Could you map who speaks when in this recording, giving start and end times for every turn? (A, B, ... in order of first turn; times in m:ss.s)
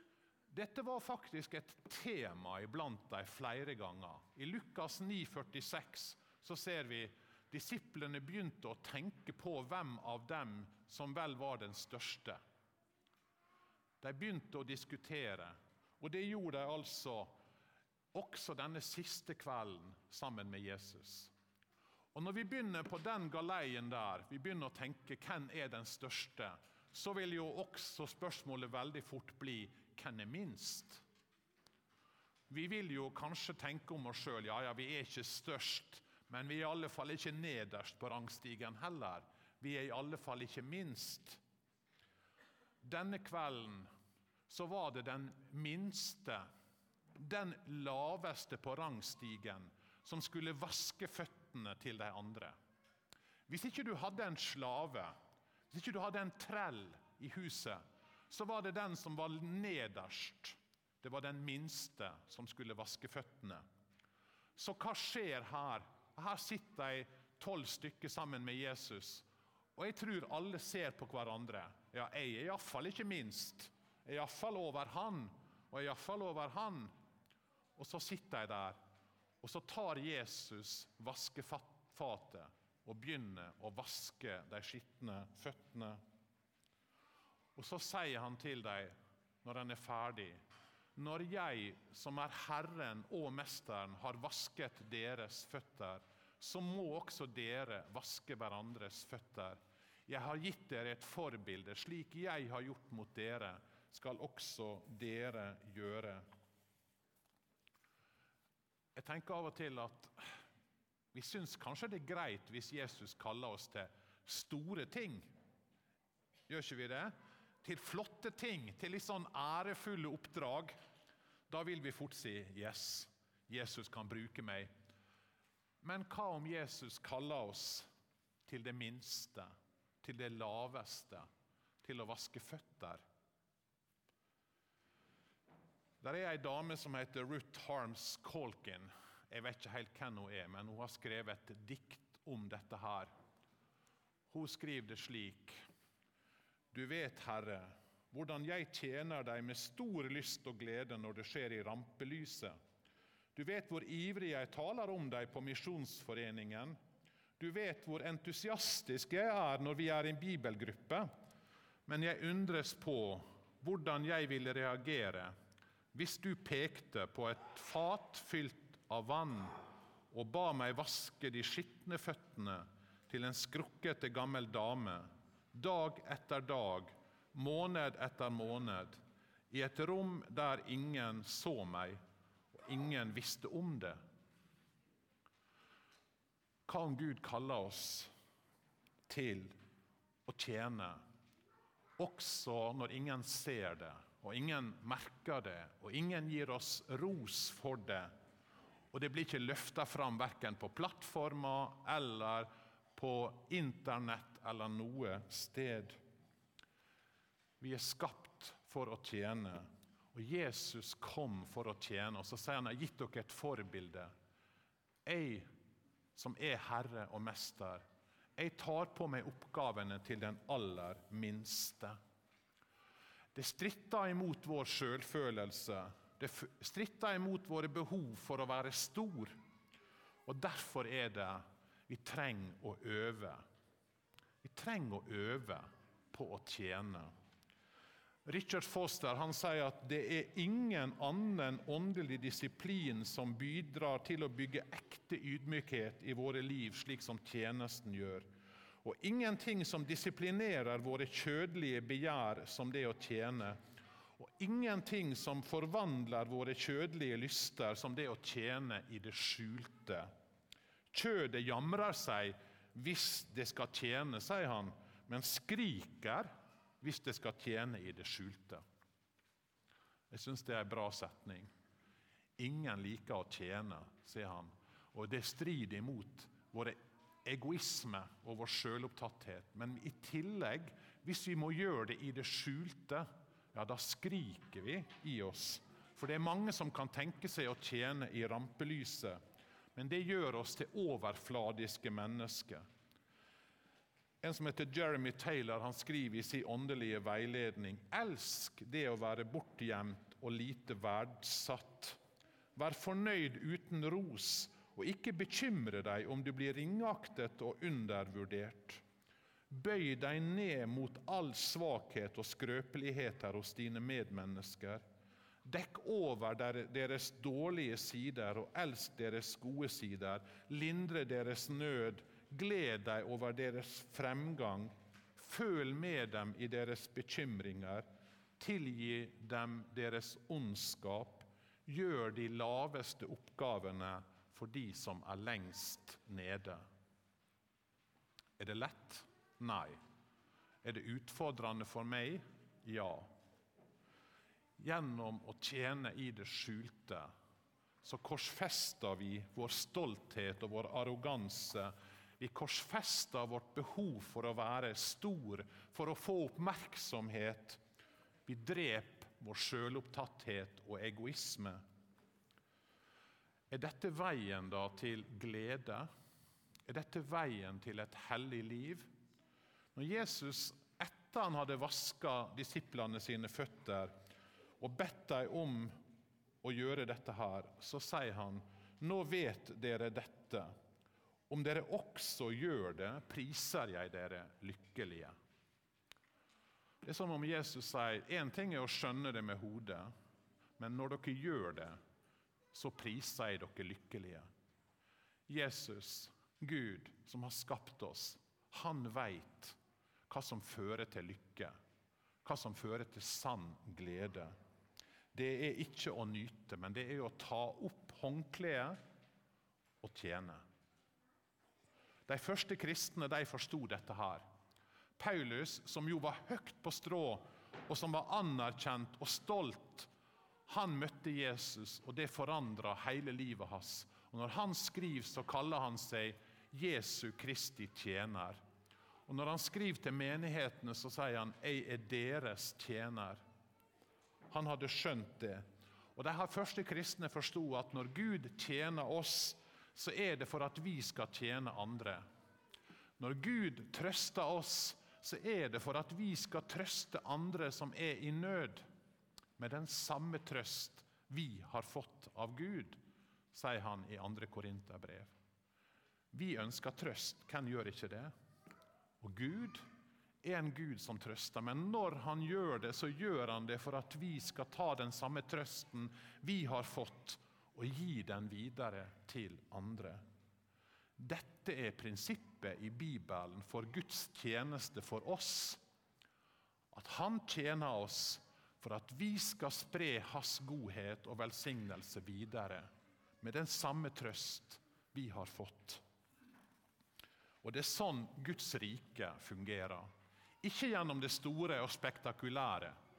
0:00.5-0:12.4 A
0:14.0-0:17.3 A
0:18.1-0:21.3 A
0:22.1-0:31.0 A
0:32.5-0:41.4 A
0:42.8-0:43.9 A
0:44.5-0:46.5 A
0:47.2-0:52.6 A
0:53.5-0:55.2 A
0:55.7-1:03.6 A
1:04.6-1:16.9 A
1:17.8-1:18.8 A
1:19.4-1:26.0 A
1:27.6-1:30.4 A
1:31.0-1:46.3 A
1:49.0-1:50.4 A
1:51.1-1:55.3 A
1:56.5-2:00.8 A
2:01.5-2:04.7 A
2:05.8-2:07.9 A
2:08.5-2:11.3 A
2:11.8-2:13.0 A
2:16.0-2:23.1 A
2:24.3-2:25.6 A
2:26.7-2:32.6 A
2:33.4-2:36.8 A
2:37.4-2:41.1 A
2:41.9-2:45.3 A
2:45.9-2:49.6 A
2:50.1-3:02.0 A
3:02.5-3:04.0 A
3:06.7-3:08.1 A
3:09.1-3:09.6 A
3:10.3-3:11.0 A
3:12.0-3:18.1 A
3:18.9-3:26.0 A
3:27.6-3:34.1 A
3:35.0-3:35.5 A
3:36.2-3:37.8 A
3:38.4-3:42.0 A
3:43.3-3:49.4 A
3:50.3-3:53.4 A
3:54.4-3:57.1 A
3:58.3-4:08.3 A
4:08.8-4:13.6 A
4:14.2-4:20.1 A
4:20.9-4:26.3 A
4:26.8-4:28.6 A
4:30.1-4:31.5 A
4:32.4-4:49.2 A
4:49.8-4:52.6 A
4:54.2-5:02.0 A
5:02.6-5:08.8 A
5:09.5-5:14.8 A
5:15.4-5:27.9 A
5:28.4-5:36.7 A
5:38.4-5:39.8 A
5:40.6-5:43.1 A
5:44.6-5:47.1 A
5:47.8-5:57.6 A
5:58.3-6:01.6 A
6:03.5-6:05.9 A
6:06.7-6:08.9 A
6:09.8-6:13.9 A
6:14.6-6:15.8 A
6:16.4-6:20.5 A
6:21.3-6:25.2 A
6:26.8-6:29.9 A
6:30.6-6:31.8 A
6:32.5-6:34.3 A
6:35.3-6:39.6 A
6:40.1-6:41.6 A
6:42.2-6:44.3 A
6:45.1-6:48.8 A
6:49.8-6:50.4 A
6:52.1-6:54.2 A
6:55.0-6:59.9 A
7:00.5-7:08.4 A
7:09.1-7:13.2 A
7:14.3-7:15.4 A
7:16.0-7:22.0 A
7:23.0-7:28.6 A
7:29.4-7:32.8 A
7:33.3-7:35.1 A
7:36.1-7:38.1 A
7:39.0-7:39.6 A
7:40.2-7:50.0 A
7:51.0-7:55.6 A
7:56.7-8:02.7 A
8:03.2-8:05.8 A
8:07.4-8:09.9 A
8:10.4-8:12.8 A